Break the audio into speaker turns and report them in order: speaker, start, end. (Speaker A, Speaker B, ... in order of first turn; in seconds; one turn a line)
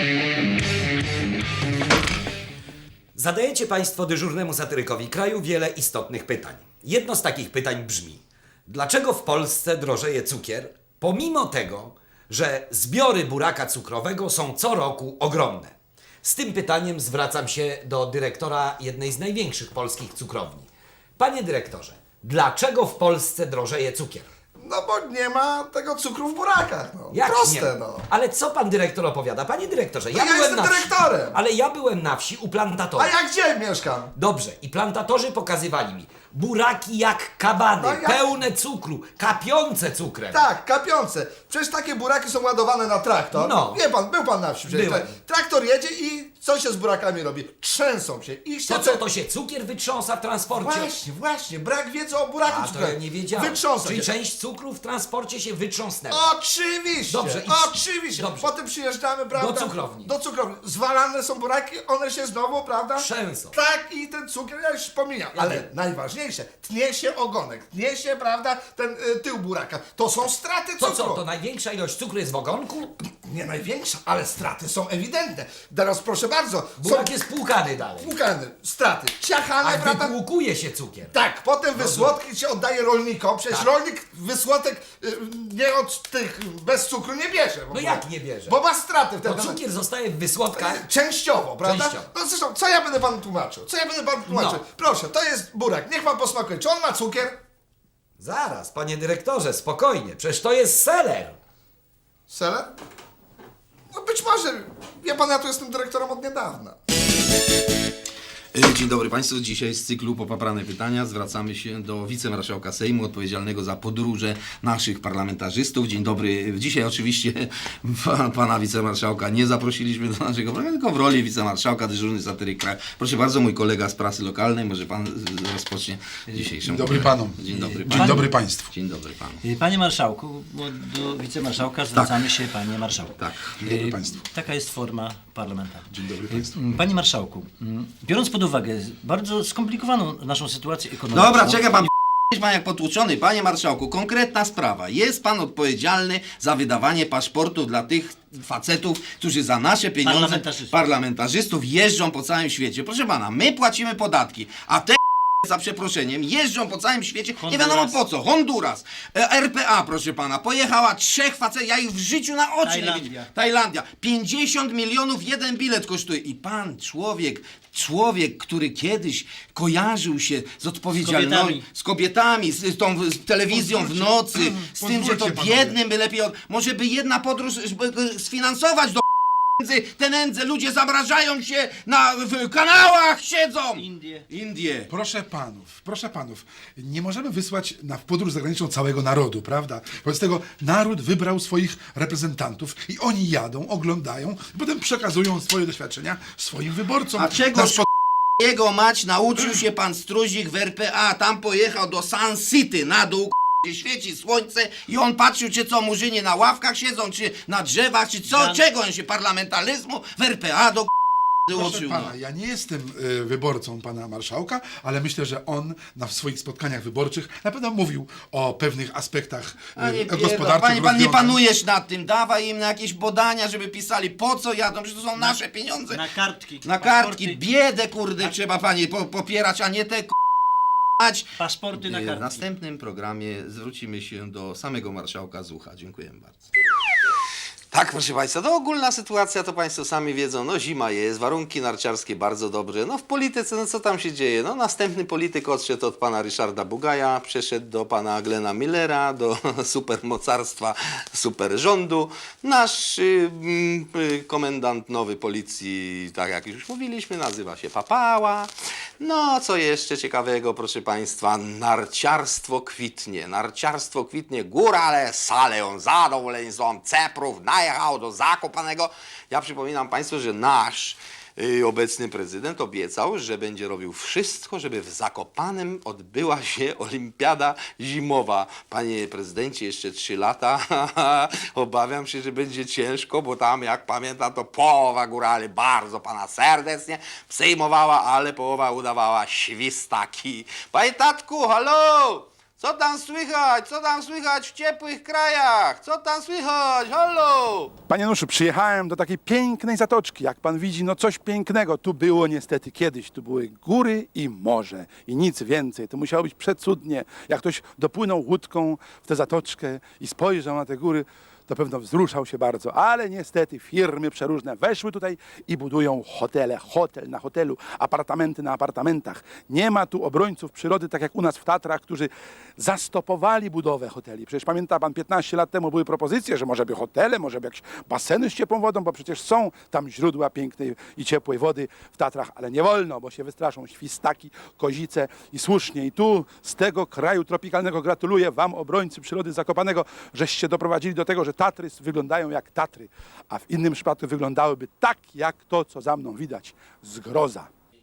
Speaker A: 3.1-24.3
Speaker B: 24.6-28.1
Speaker A: 27.1-33.1
Speaker B: 30.1-31.4
Speaker B: 33.0-34.1
Speaker A: 34.2-40.5
Speaker B: 37.8-38.3
Speaker B: 40.3-49.0
Speaker A: 43.3-43.8
Speaker A: 44.7-45.1
Speaker A: 48.7-50.9
Speaker B: 50.5-54.1
Speaker A: 52.4-56.3
Speaker B: 56.1-71.2
Speaker A: 57.1-58.5
Speaker A: 59.3-60.2
Speaker A: 63.0-63.6
Speaker A: 65.3-65.7
Speaker A: 70.8-72.9
Speaker B: 73.2-77.2
Speaker A: 76.8-78.1
Speaker B: 78.0-80.2
Speaker A: 79.6-81.2
Speaker B: 81.1-89.6
Speaker A: 81.7-82.2
Speaker A: 87.7-88.6
Speaker A: 89.2-90.9
Speaker B: 90.5-97.4
Speaker A: 91.6-92.1
Speaker A: 94.3-94.6
Speaker A: 98.2-101.4
Speaker B: 102.3-102.7
Speaker B: 103.9-106.8
Speaker C: 108.5-129.4
Speaker D: 126.7-128.7
Speaker E: 127.5-128.2
Speaker E: 129.4-141.9
Speaker C: 131.9-132.2
Speaker C: 133.2-133.6
Speaker D: 133.6-134.2
Speaker D: 135.9-136.5
Speaker C: 141.1-179.0
Speaker E: 150.0-150.8
Speaker E: 157.4-158.0
Speaker E: 162.6-163.3
Speaker E: 171.0-171.7
Speaker D: 173.5-175.8
Speaker C: 179.6-184.9
Speaker E: 183.8-184.2
Speaker D: 184.9-197.9
Speaker C: 197.2-197.9
Speaker C: 198.4-210.9
Speaker E: 208.3-208.6
Speaker C: 211.5-212.1
Speaker D: 211.5-221.4
Speaker C: 219.8-226.1
Speaker E: 225.9-227.4
Speaker C: 226.6-230.2
Speaker C: 231.0-236.5
Speaker E: 231.4-232.4
Speaker C: 237.7-297.7
Speaker D: 297.9-347.5